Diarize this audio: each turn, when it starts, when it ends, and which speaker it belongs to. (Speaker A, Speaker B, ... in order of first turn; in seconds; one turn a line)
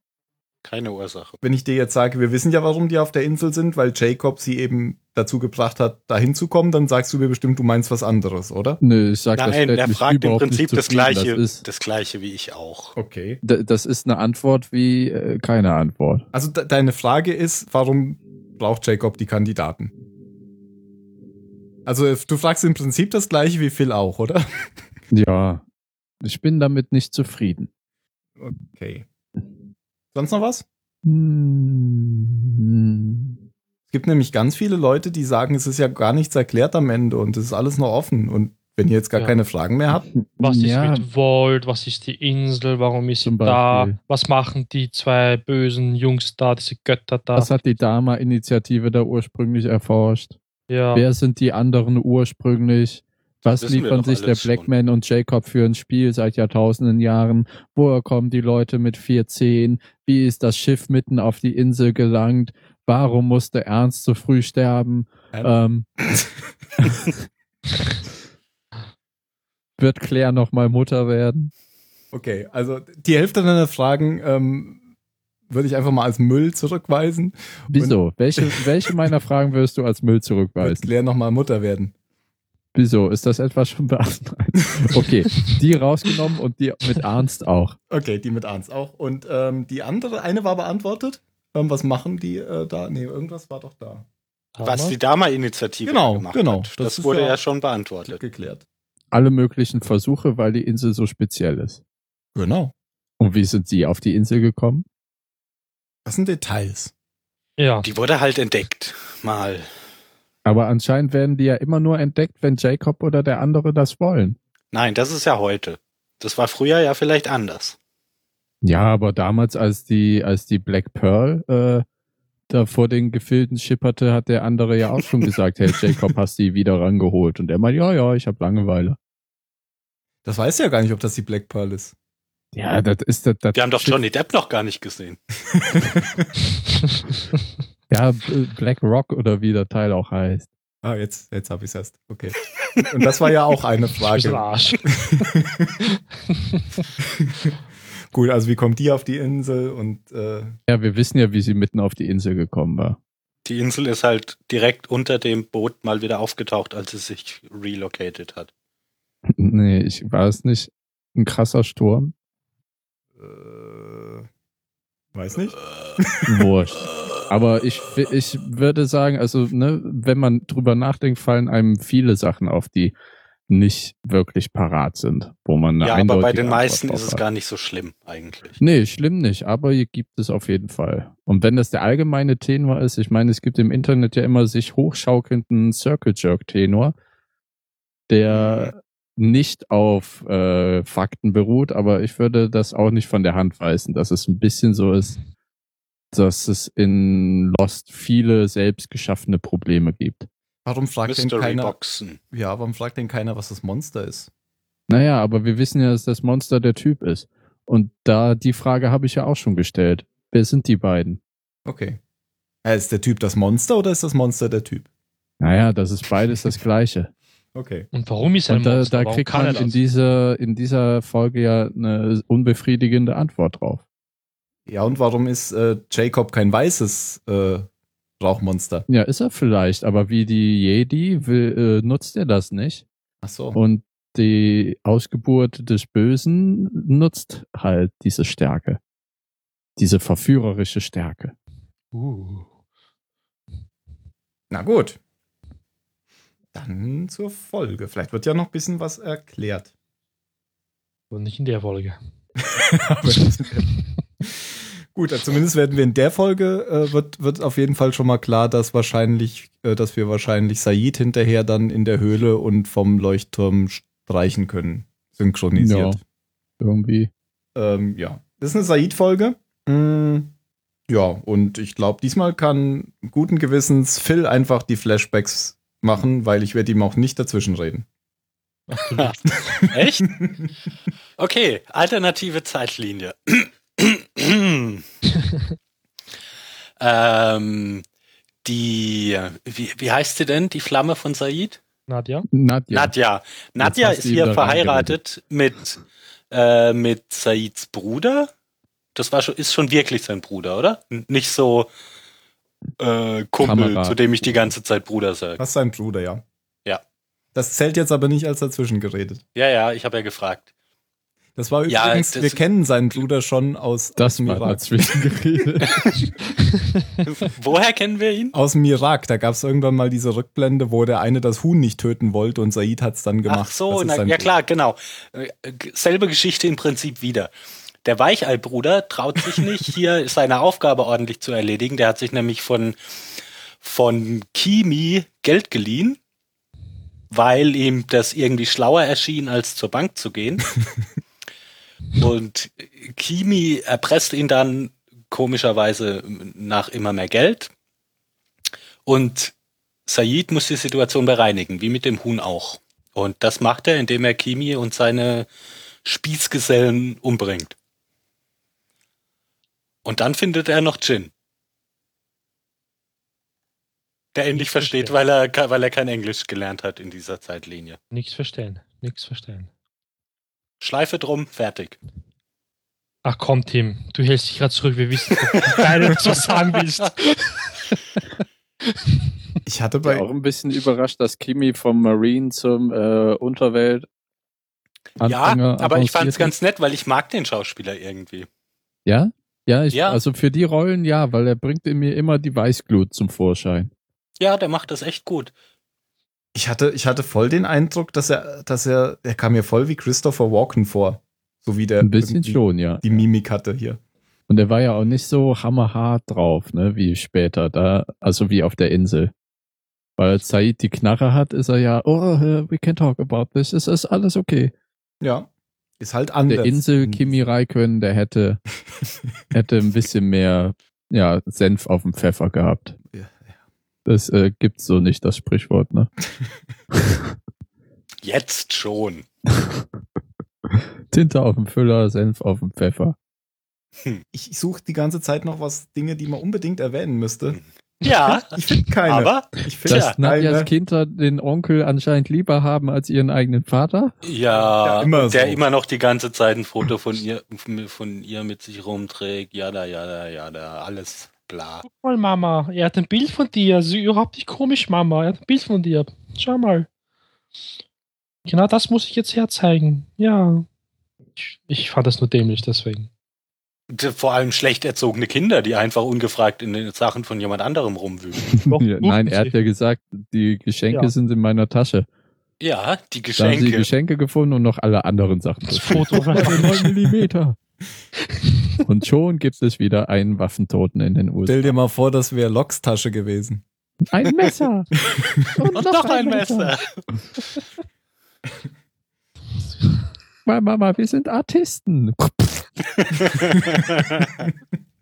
Speaker A: 0.6-1.4
Speaker B: 1.4-8.8
Speaker C: 8.8-11.6
Speaker A: 9.3-12.9
Speaker B: 12.9-13.4
Speaker C: 13.4-16.2
Speaker B: 16.3-19.9
Speaker B: 21.9-24.4
Speaker C: 25.1-25.6
Speaker C: 26.2-27.7
Speaker B: 28.4-29.1
Speaker B: 30.1-30.6
Speaker C: 31.0-33.4
Speaker B: 33.9-40.0
Speaker C: 40.1-41.0
Speaker D: 40.4-47.5
Speaker C: 43.2-44.0
Speaker C: 47.3-50.4
Speaker D: 50.7-51.0
Speaker C: 50.9-65.8
Speaker A: 53.4-54.7
Speaker B: 65.3-66.3
Speaker C: 66.8-67.1
Speaker C: 69.8-71.5
Speaker B: 72.1-74.8
Speaker B: 75.5-78.6
Speaker C: 77.7-80.9
Speaker B: 80.6-81.9
Speaker C: 82.7-87.8
Speaker B: 87.9-94.0
Speaker D: 94.5-95.0
Speaker A: 94.6-98.2
Speaker B: 95.8-97.4
Speaker B: 98.0-98.6
Speaker C: 99.1-101.8
Speaker B: 102.3-102.7
Speaker C: 103.2-104.8
Speaker B: 106.0-106.9
Speaker D: 107.6-107.9
Speaker A: 107.8-109.7
Speaker C: 110.4-114.4
Speaker A: 114.7-117.8
Speaker C: 118.6-121.8
Speaker C: 122.5-129.0
Speaker B: 130.2-131.9
Speaker C: 132.5-134.0
Speaker A: 133.5-135.2
Speaker B: 135.5-136.3
Speaker C: 137.9-140.5
Speaker B: 140.8-145.9
Speaker D: 144.1-144.9
Speaker D: 146.5-146.8
Speaker B: 147.0-147.5
Speaker B: 148.1-150.5
Speaker C: 150.7-153.0
Speaker A: 153.4-158.5
Speaker C: 159.3-162.1
Speaker B: 163.2-164.3
Speaker B: 165.1-166.5
Speaker C: 166.2-172.9
Speaker C: 173.5-177.2
Speaker A: 175.8-178.6
Speaker C: 178.6-186.9
Speaker C: 188.1-195.2
Speaker A: 188.3-188.7
Speaker C: 196.1-200.3
Speaker B: 200.6-201.7
Speaker A: 201.1-202.2
Speaker B: 202.3-204.3
Speaker C: 204.9-211.2
Speaker B: 211.7-212.0
Speaker B: 212.6-214.8
Speaker C: 215.4-217.1
Speaker B: 217.5-217.9
Speaker D: 217.9-219.8
Speaker C: 218.5-223.8
Speaker A: 219.3-219.6
Speaker B: 224.7-227.7
Speaker B: 228.2-228.8
Speaker C: 228.9-232.8
Speaker B: 233.2-233.6
Speaker C: 233.5-238.8
Speaker C: 239.8-241.3
Speaker D: 241.9-242.5
Speaker B: 244.5-245.0
Speaker B: 246.5-249.7
Speaker D: 251.1-252.0
Speaker B: 252.4-253.7
Speaker B: 254.2-266.0
Speaker C: 265.6-266.0
Speaker C: 266.6-267.1
Speaker B: 267.5-270.3
Speaker B: 270.9-277.9
Speaker D: 278.7-279.3
Speaker A: 278.9-280.1
Speaker B: 280.2-280.5
Speaker A: 281.2-284.8
Speaker A: 286.8-287.8
Speaker A: 288.4-291.6
Speaker D: 291.9-292.3
Speaker C: 292.3-292.9
Speaker A: 292.7-298.3
Speaker C: 293.6-295.0
Speaker A: 298.9-301.7
Speaker A: 302.8-305.4
Speaker C: 303.4-304.4
Speaker B: 305.4-306.2
Speaker B: 307.3-309.2
Speaker A: 309.3-310.4
Speaker B: 311.4-314.7
Speaker A: 311.7-312.4
Speaker C: 314.0-315.9
Speaker A: 315.6-316.0
Speaker A: 317.1-318.3
Speaker B: 318.3-324.3
Speaker A: 323.3-327.3
Speaker A: 327.8-332.8
Speaker A: 333.6-336.0
Speaker A: 337.1-340.5
Speaker A: 341.9-347.5
Speaker A: 348.9-349.3
Speaker A: 349.9-355.3
Speaker A: 355.8-357.5
Speaker A: 359.8-361.1
Speaker A: 364.1-367.8
Speaker D: 364.3-364.9
Speaker D: 367.9-369.5
Speaker A: 370.6-371.8
Speaker D: 373.0-377.4
Speaker B: 379.4-380.0
Speaker C: 379.8-383.9
Speaker C: 385.0-386.3
Speaker A: 385.0-388.3
Speaker C: 388.9-393.7
Speaker A: 389.7-390.0
Speaker A: 394.2-395.3
Speaker B: 396.3-403.8
Speaker C: 401.8-402.8
Speaker C: 404.3-409.1
Speaker C: 410.0-414.5
Speaker B: 415.0-415.3
Speaker B: 415.8-417.1
Speaker C: 416.3-418.4
Speaker C: 419.3-422.8
Speaker B: 422.9-423.3
Speaker C: 423.9-425.9
Speaker C: 426.7-427.1
Speaker A: 428.0-429.1
Speaker C: 430.5-432.9
Speaker B: 434.1-437.4
Speaker A: 437.3-439.9
Speaker B: 438.3-440.5
Speaker C: 439.6-443.9
Speaker A: 444.0-451.6
Speaker B: 444.6-445.4
Speaker D: 451.6-456.7
Speaker D: 458.2-460.4
Speaker D: 461.2-462.9
Speaker A: 463.7-468.2
Speaker C: 468.2-471.9
Speaker D: 468.5-469.3
Speaker A: 472.4-473.7
Speaker C: 473.2-477.4
Speaker D: 475.5-476.7
Speaker C: 478.6-481.5
Speaker B: 481.2-483.4
Speaker C: 483.9-486.5
Speaker A: 485.5-486.8
Speaker C: 490.2-492.5
Speaker A: 492.9-494.1